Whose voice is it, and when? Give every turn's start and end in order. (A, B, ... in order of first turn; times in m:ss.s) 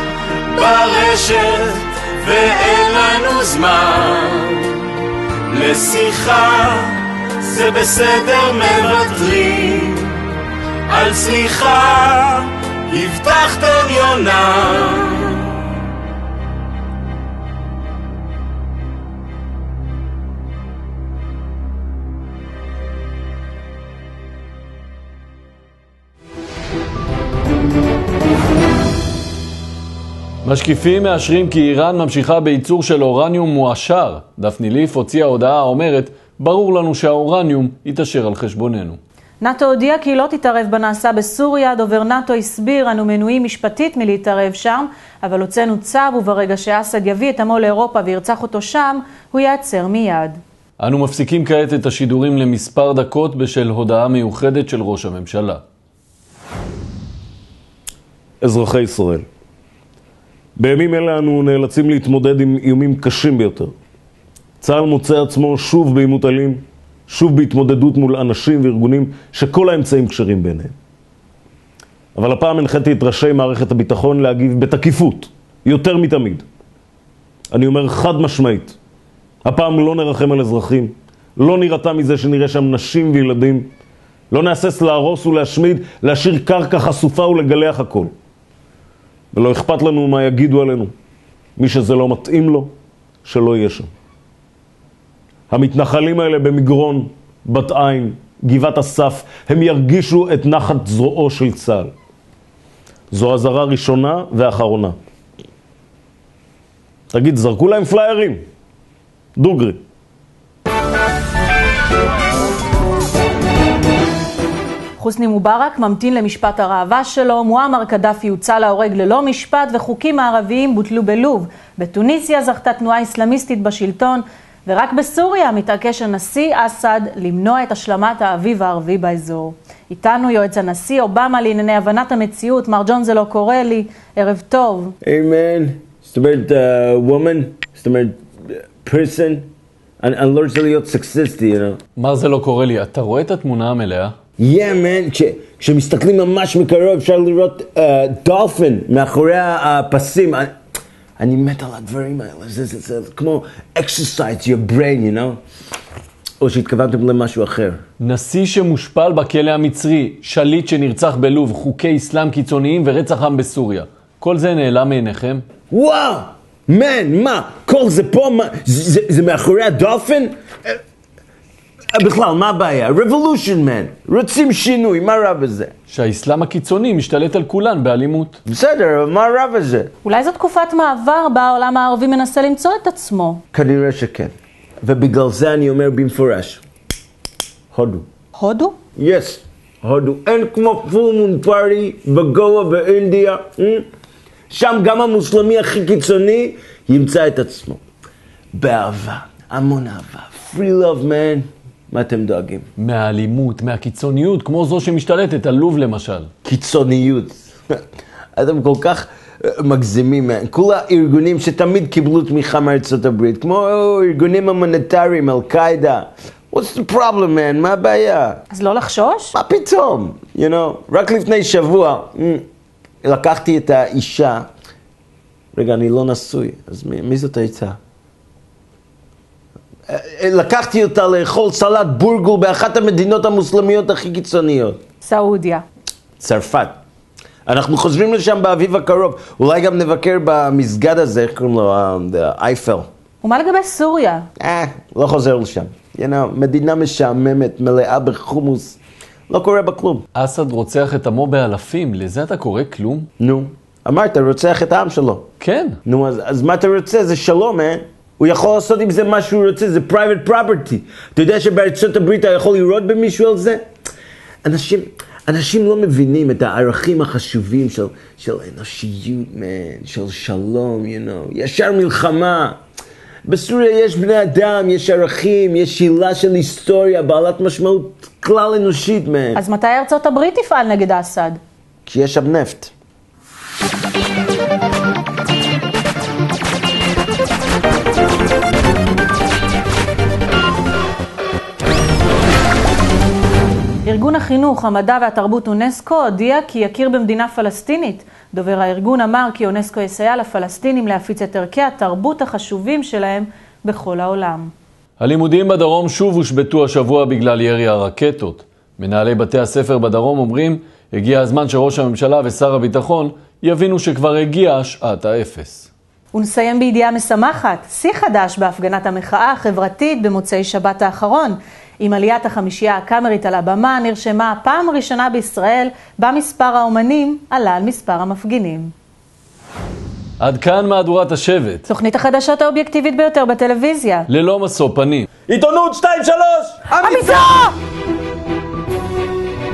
0:00.5-0:04.9 A
0:05.5-0:10.2 A
0:10.9-0:15.5 A
0:30.4-0:39.0 B
0:39.4-0:50.4 C
0:50.8-0:55.6 B
0:58.4-0:59.2 D
1:00.6-1:03.7 D
1:04.6-1:10.7 D
1:12.2-1:16.4 D
1:17.5-1:18.8 D
1:19.4-1:23.7 D
1:24.3-1:28.1 D
1:29.3-1:30.9 D
1:31.6-1:32.7 D
1:33.2-1:33.9 D
1:35.5-1:41.9 D
1:43.1-1:45.0 D
1:47.1-1:48.4 D
1:49.4-1:49.8 D
1:55.0-2:15.0 C
2:15.0-2:19.5 E
2:20.0-2:21.8 E
2:22.0-2:24.1 B
2:24.4-2:30.5 E
2:31.2-2:35.4 E
2:36.4-2:37.8 E
2:38.0-2:45.4 B
2:45.7-2:50.8 E
2:51.9-2:55.7 E
2:55.9-2:58.4 B
2:58.5-2:59.9 E
3:00.0-3:03.4 C
3:03.5-3:06.6 E
3:07.7-3:08.0 E
3:08.4-3:08.8 C
3:09.0-3:13.9 E
3:14.5-3:17.8 E
3:18.5-3:22.7 E
3:22.8-3:26.3 B
3:26.4-3:27.8 E
3:28.4-3:38.4 E
3:38.5-3:39.3 C
3:39.3-3:42.4 E
3:43.0-3:44.5 E
3:45.6-3:47.8 E
3:49.9-3:54.8 E
3:55.0-3:55.6 C
3:56.2-3:56.8 E
3:57.5-4:02.9 E
4:03.2-4:04.3 C
4:04.4-4:10.0 E
4:10.2-4:13.1 B
4:13.2-4:15.3 E
4:15.4-4:15.8 B
4:15.8-4:23.6 E
4:24.4-4:32.6 E
4:33.2-4:39.4 E
4:39.4-4:41.4 C
4:41.9-4:42.7 E
4:53.8-5:04.5 C
5:05.0-5:15.7 B
5:16.1-5:28.7 C
5:30.2-5:31.7 B
5:31.7-5:34.1 C
5:34.1-5:35.1 B
5:35.3-5:36.7 D
5:36.7-5:37.5 C